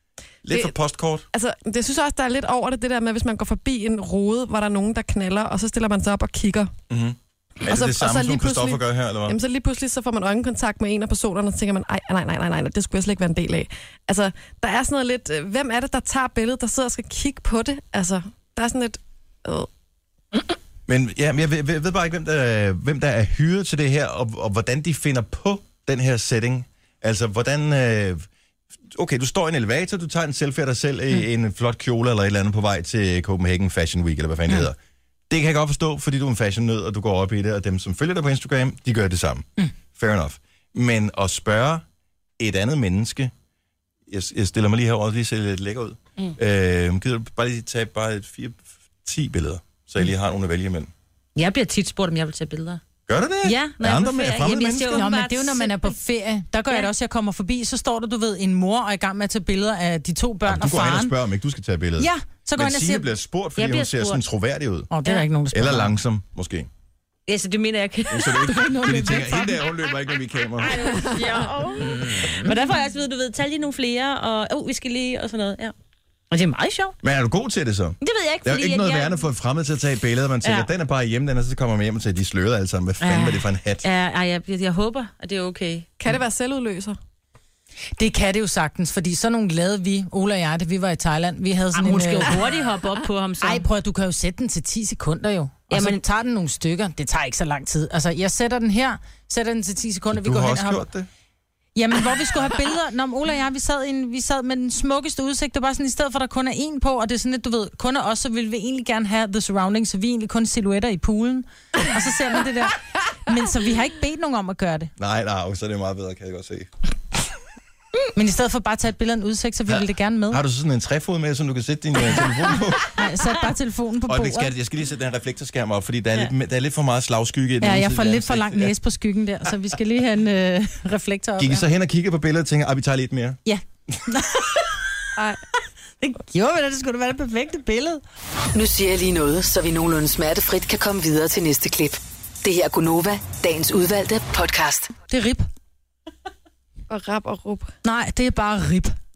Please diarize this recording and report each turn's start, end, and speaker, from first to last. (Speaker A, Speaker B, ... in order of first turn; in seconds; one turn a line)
Speaker A: 0.4-1.2
Speaker B: 1.3-6.7
Speaker A: 6.9-9.4
Speaker B: 7.7-19.7
Speaker A: 20.9-28.2
Speaker A: 28.9-34.8
Speaker A: 35.3-41.8
Speaker A: 42.4-43.3
Speaker A: 44.1-50.9
Speaker C: 51.4-52.8
Speaker A: 53.1-55.0
Speaker C: 53.4-55.9
Speaker D: 54.9-61.1
Speaker A: 60.5-64.9
Speaker D: 62.0-63.1
Speaker C: 63.6-64.2
Speaker D: 64.9-65.9
Speaker A: 65.5-66.7
Speaker C: 67.3-68.5
Speaker A: 68.1-71.1
Speaker D: 68.4-69.6
Speaker C: 70.6-75.7
Speaker D: 71.8-72.5
Speaker C: 76.3-77.0
Speaker A: 77.0-83.8
Speaker C: 78.0-79.2
Speaker C: 80.4-80.7
Speaker C: 83.0-85.9
Speaker B: 86.0-87.0
Speaker D: 88.0-92.4
Speaker C: 91.7-93.6
Speaker D: 93.4-100.9
Speaker C: 95.7-96.0
Speaker A: 100.1-101.1
Speaker D: 101.8-114.9
Speaker A: 115.0-116.7
Speaker D: 118.1-120.4
Speaker A: 119.7-123.0
Speaker D: 122.9-124.5
Speaker A: 124.1-128.7
Speaker D: 127.6-131.6
Speaker A: 131.4-133.4
Speaker D: 133.4-134.6
Speaker D: 136.2-138.0
Speaker E: 138.5-144.9
Speaker D: 145.1-145.4
Speaker B: 146.9-147.7
Speaker D: 147.8-148.9